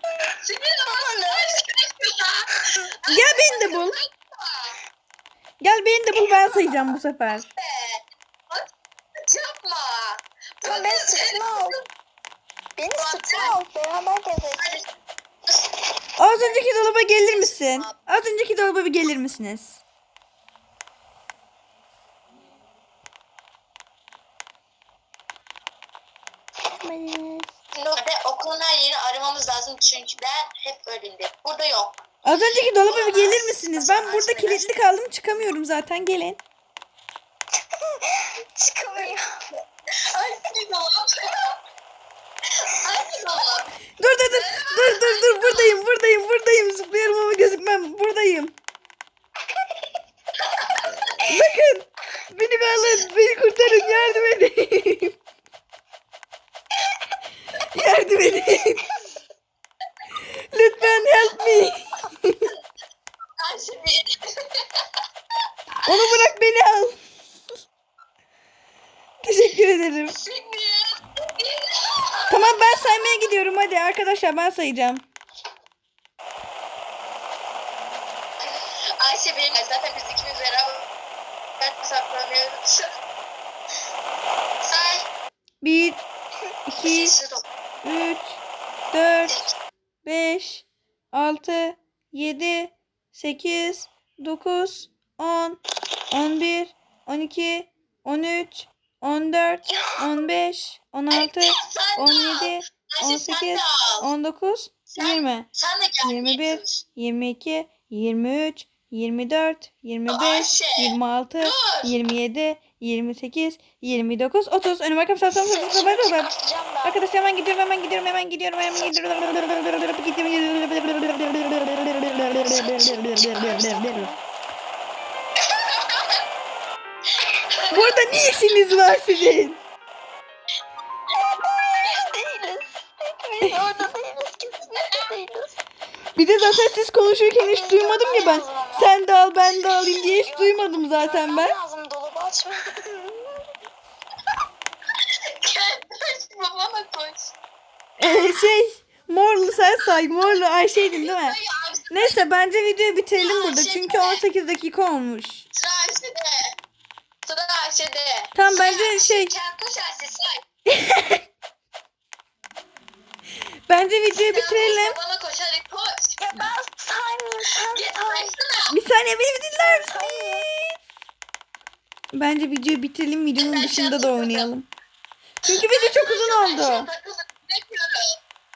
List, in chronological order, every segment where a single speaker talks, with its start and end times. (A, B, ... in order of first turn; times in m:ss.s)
0:00.4-0:02.5 A
0:00.8-0:01.5 B
0:03.0-0:04.8 A
0:03.1-0:03.9 C
0:05.6-0:07.5 C
0:07.6-0:08.6 A
0:09.3-0:11.8 A
0:10.6-0:11.7 B
0:12.8-0:14.6 B
0:13.0-0:13.6 A
0:14.6-0:14.8 A
0:15.5-0:15.7 A
0:16.2-0:19.8 C
0:16.4-0:17.9 A
0:26.8-0:27.4 B
0:27.7-0:32.0 A
0:32.2-0:36.4 C
0:32.8-0:34.7 A
0:38.2-0:39.3 B
0:40.1-0:41.1 A
0:42.6-0:43.7 A
0:44.0-0:48.5 C
0:44.3-0:45.8 A
0:50.6-0:50.9 A
0:51.2-0:55.2 C
0:57.7-0:58.8 C
1:00.5-1:02.4 C
1:03.4-1:04.0 A
1:05.8-1:07.0 C
1:09.2-1:10.1 C
1:10.1-1:10.8 A
1:12.1-1:13.1 A
1:12.3-1:15.0 C
1:19.0-1:20.9 A
1:21.6-1:22.8 A
1:24.7-1:25.0 A
1:25.6-1:26.0 C
1:26.7-1:27.1 C
1:26.8-1:27.4 A
1:27.8-1:28.4 C
1:28.9-1:29.4 C
1:30.0-1:35.6 C
1:36.1-1:45.5 C
1:39.7-1:40.0 B
1:41.1-1:44.0 A
1:44.9-1:46.8 A
1:46.0-1:56.3 C
1:50.1-1:51.9 A
1:55.3-1:57.0 B
1:56.8-2:04.1 C
2:02.4-2:04.2 B
2:07.7-2:09.6 C
2:11.5-2:15.6 B
2:16.2-2:21.5 C
2:17.4-2:18.9 B
2:20.1-2:23.4 B
2:25.4-2:27.3 A
2:28.0-2:31.3 C
2:28.0-2:28.3 A
2:31.0-2:32.2 A
2:31.9-2:35.4 C
2:33.1-2:34.2 A
2:35.5-2:36.3 A
2:37.2-2:40.4 A
2:38.3-2:39.3 C
2:40.7-2:41.2 C
2:43.7-2:45.0 C
2:44.1-2:46.1 A
2:46.2-2:48.3 B
2:47.7-2:48.7 A
2:48.7-2:50.7 C
2:49.8-2:50.5 B
2:52.1-2:54.7 C
2:53.4-2:54.5 A
2:55.4-2:56.9 C
2:55.5-2:58.0 A